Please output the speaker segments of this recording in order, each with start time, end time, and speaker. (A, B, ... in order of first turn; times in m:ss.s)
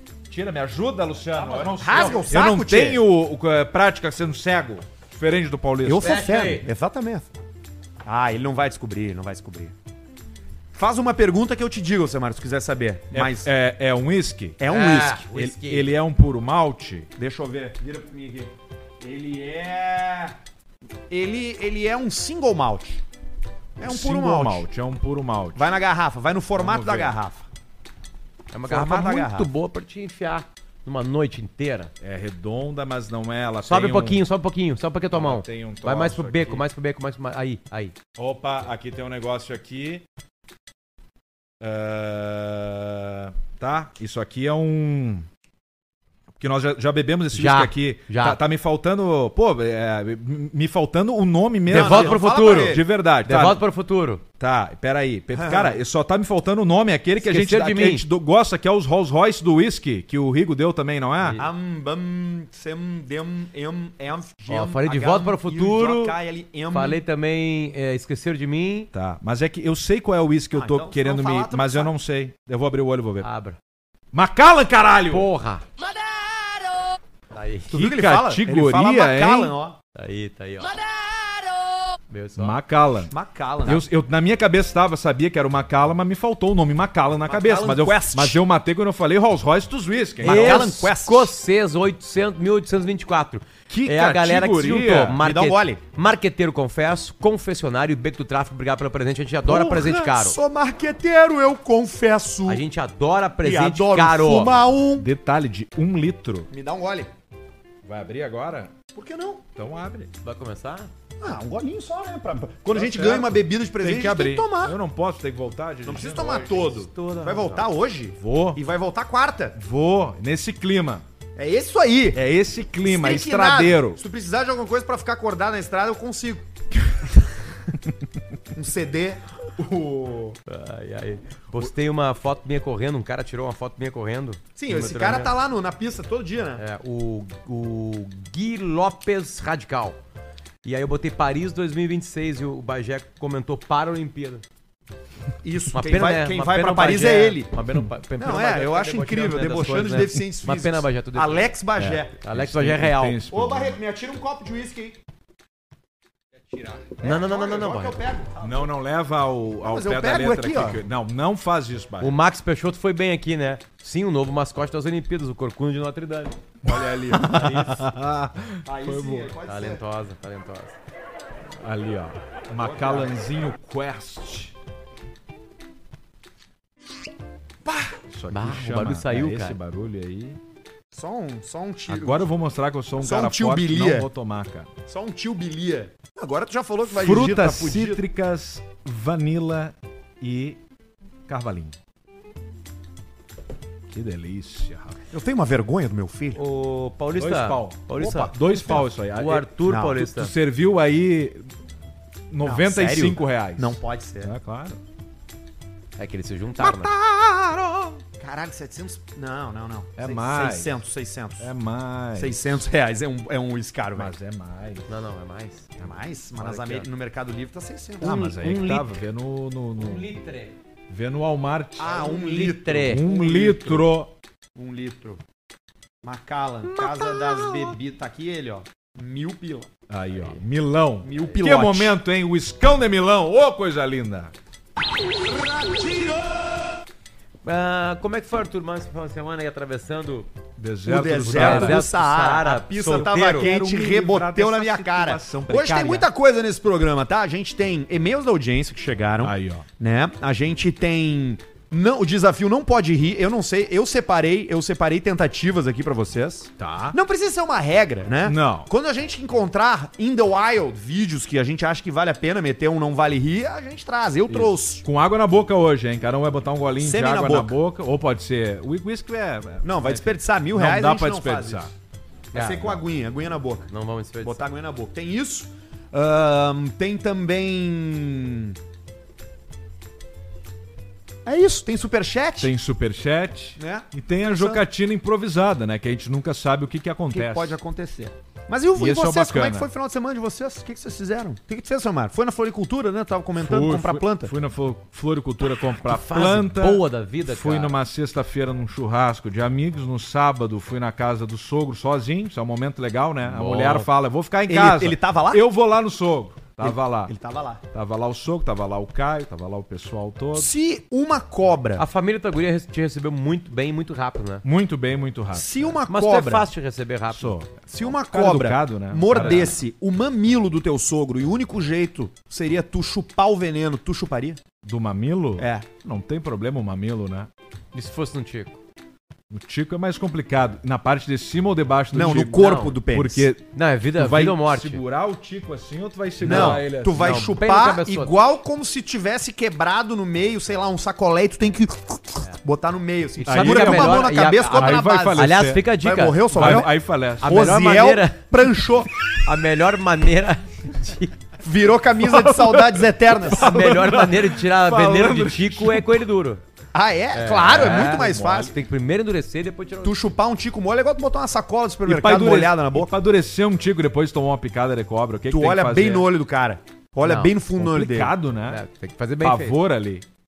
0:00.3-0:06.1 A
0:01.3-0:02.3 B
0:01.8-0:03.0 C
0:05.8-0:07.3 C
0:06.0-0:06.6 B
0:08.0-0:09.7 C
0:10.7-0:13.5 C
0:13.1-0:14.6 A
0:14.6-0:15.2 C
0:14.7-0:15.9 B
0:15.3-0:17.1 A
0:17.2-0:20.4 C
0:21.1-0:23.0 C
0:23.8-0:24.7 C
0:23.8-0:25.7 A
0:25.5-0:27.4 C
0:26.6-0:27.2 A
0:28.5-0:31.9 B
0:28.6-0:29.5 C
0:32.0-0:34.2 A
0:33.6-0:38.0 B
0:35.1-0:36.6 A
0:38.2-0:40.0 A
0:41.6-0:45.3 A
0:46.4-0:53.6 A
0:47.3-0:48.4 B
0:51.7-0:52.8 C
0:51.7-0:54.2 B
0:54.4-1:01.4 A
0:55.3-0:55.8 C
0:57.2-0:58.0 B
1:01.2-1:01.5 B
1:01.4-1:07.0 C
1:04.5-1:06.2 B
1:06.7-1:08.9 B
1:08.9-1:13.3 A
1:10.5-1:11.9 C
1:13.2-1:13.6 B
1:14.1-1:15.3 A
1:15.1-1:15.6 B
1:17.3-1:17.8 B
1:17.7-1:19.5 A
1:17.7-1:19.8 C
1:20.0-1:21.4 B
1:22.1-1:22.6 B
1:22.4-1:23.1 A
1:23.1-1:23.8 C
1:23.6-1:30.7 A
1:27.3-1:28.4 C
1:30.2-1:40.4 B
1:30.2-1:31.3 C
1:33.7-1:35.2 A
1:35.2-1:35.8 C
1:39.5-1:42.6 C
1:42.5-1:44.5 B
1:43.4-1:45.1 C
1:44.9-1:46.5 A
1:46.5-1:47.1 C
1:47.8-1:48.7 A
1:48.9-1:49.4 C
1:49.6-1:50.1 A
1:50.2-1:50.9 B
1:51.2-1:54.8 C
1:52.7-1:56.5 A
1:55.8-1:59.6 C
1:56.0-1:57.6 B
1:58.2-1:58.6 A
1:59.6-2:01.0 A
2:01.4-2:02.2 C
2:02.1-2:04.0 A
2:02.8-2:06.4 C
2:08.5-2:09.2 C
2:09.6-2:10.4 A
2:10.5-2:15.3 B
2:14.6-2:16.6 C
2:16.6-2:20.0 B
2:20.6-2:24.4 B
2:25.4-2:27.5 C
2:25.7-2:33.2 B
2:28.2-2:32.1 C
2:32.3-2:33.8 A
2:33.3-2:35.0 C
2:36.6-2:38.7 C
2:37.0-2:38.0 B
2:38.4-2:42.2 A
2:39.6-2:40.8 C
2:42.0-2:46.4 B
2:46.6-2:47.5 C
2:46.6-2:49.3 A
2:47.2-2:47.8 B
2:48.6-2:49.8 C
2:49.4-2:50.8 B
2:51.6-2:54.5 A
2:52.6-2:53.1 C
2:57.6-2:57.9 C
2:58.1-3:00.4 A
2:58.3-2:59.6 B
3:00.9-3:02.3 C
3:01.9-3:04.7 A
3:03.0-3:04.1 C
3:04.8-3:08.0 C
3:06.9-3:10.6 A
3:11.3-3:11.8 A
3:13.9-3:15.0 A
3:15.1-3:16.4 C
3:16.3-3:20.3 B
3:17.2-3:21.5 A
3:18.4-3:18.8 C
3:19.7-3:20.0 C
3:22.3-3:24.8 A
3:22.4-3:24.3 C
3:26.0-3:26.9 B
3:26.6-3:27.9 A
3:28.2-3:31.5 C
3:30.0-3:30.7 A
3:31.4-3:32.4 A
3:32.1-3:34.1 C
3:33.9-3:34.9 A
3:34.9-3:35.7 B
3:35.8-3:38.2 C
3:36.4-3:36.9 B
3:38.0-3:39.0 B
3:38.0-3:40.0 A
3:39.8-3:40.5 B
3:40.9-3:42.0 A
3:41.8-3:43.9 C
3:41.8-3:43.0 B
3:42.7-3:44.1 A
3:44.6-3:45.2 C
3:46.0-3:49.7 C
3:46.6-3:47.8 A
3:49.9-3:54.3 A
3:51.0-3:52.0 C
3:55.3-3:56.1 C
3:57.4-4:00.3 B
4:00.6-4:01.8 A
4:00.8-4:24.8 C
4:01.2-4:03.5 B
4:02.8-4:06.1 A
4:09.2-4:09.6 A
4:16.6-4:17.0 A
4:18.2-4:18.7 A
4:24.3-4:31.7 A
4:26.8-4:27.5 C
4:29.6-4:31.7 C
4:32.3-4:32.8 B
4:32.3-4:33.7 C
4:33.7-4:34.4 B
4:34.2-4:38.6 C
4:41.2-4:42.5 C
4:42.4-4:47.6 A
4:43.6-4:44.6 C
4:47.1-4:54.3 C
4:48.7-4:49.7 A
4:53.4-5:07.1 A
4:55.8-4:57.8 B
5:03.3-5:03.9 B
5:04.5-5:05.4 C
5:06.6-5:07.6 C
5:07.7-5:10.5 A
5:10.4-5:11.8 C
5:11.8-5:14.4 B
5:14.4-5:15.5 A
5:15.3-5:16.5 C
5:15.9-5:17.3 B
5:17.1-5:19.5 A
5:17.7-5:24.4 C
5:19.1-5:19.6 B
5:24.6-5:27.3 A
5:25.4-5:25.6 C
5:27.7-5:28.6 B
5:29.3-5:37.3 A
5:31.9-5:33.3 C
5:32.2-5:32.8 B
5:33.5-5:34.8 B
5:36.2-5:38.1 B
5:36.2-5:48.9 C
5:43.2-5:45.6 A
5:43.2-5:46.7 B
5:46.3-5:47.4 A
5:47.2-5:48.2 B
5:49.1-5:51.2 B
5:51.4-5:53.7 C
5:52.0-5:56.0 A
5:53.2-5:56.4 B
5:56.7-5:58.5 C
5:57.1-6:00.1 B
5:57.5-5:58.5 A
5:59.8-6:02.9 C
6:01.8-6:06.1 A
6:05.3-6:08.1 C
6:07.0-6:07.3 B
6:07.6-6:08.6 A
6:08.5-6:09.6 B
6:09.2-6:10.0 A